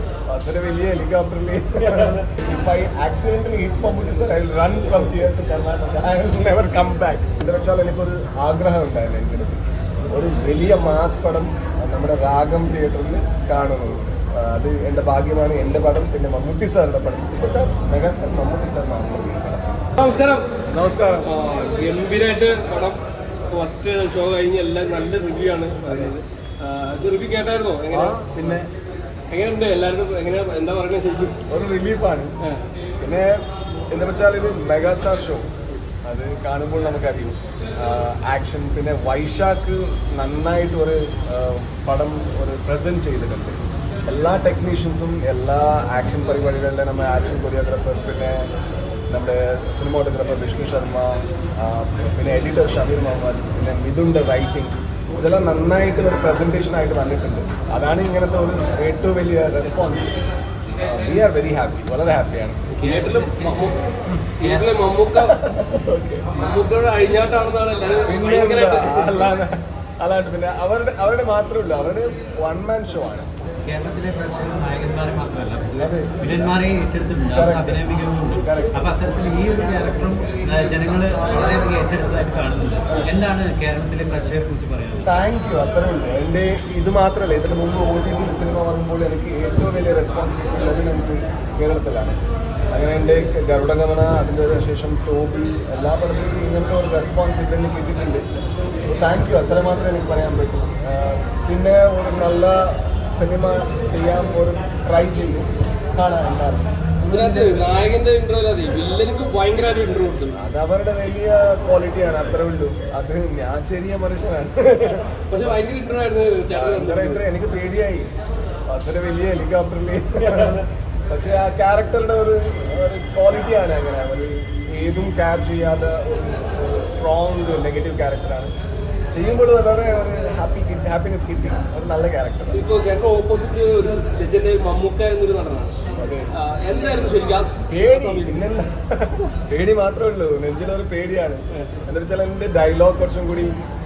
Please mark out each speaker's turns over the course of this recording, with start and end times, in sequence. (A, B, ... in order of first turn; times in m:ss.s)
0:00.3-0:19.9 A
0:20.0-0:20.5 B
0:20.7-0:21.3 A
0:21.2-0:23.0 B
0:23.5-0:28.6 B
0:25.9-0:26.1 A
0:27.9-0:28.7 A
0:29.3-0:31.4 B
0:31.5-0:32.3 A
0:33.0-0:33.4 A
0:33.9-0:35.5 A
0:36.0-0:48.5 A
0:49.1-1:00.2 A
1:00.8-1:02.6 A
1:02.8-1:03.8 C
1:02.8-1:03.8 B
1:04.4-1:05.4 B
1:04.4-1:04.8 C
1:05.2-1:06.3 A
1:06.3-1:09.3 B
1:08.1-1:13.3 A
1:13.6-1:25.1 C
1:15.8-1:16.5 A
1:17.3-1:18.9 A
1:25.0-1:32.2 A
1:32.7-1:38.2 A
1:38.8-1:46.7 A
1:47.0-1:47.7 C
1:47.1-1:50.4 B
1:50.4-1:55.8 A
1:55.3-1:57.2 B
1:56.5-1:58.1 A
1:58.7-2:08.5 A
2:00.4-2:00.6 B
2:09.1-2:12.6 A
2:12.5-2:15.7 B
2:15.9-2:16.3 A
2:16.3-2:18.5 B
2:17.7-2:23.6 A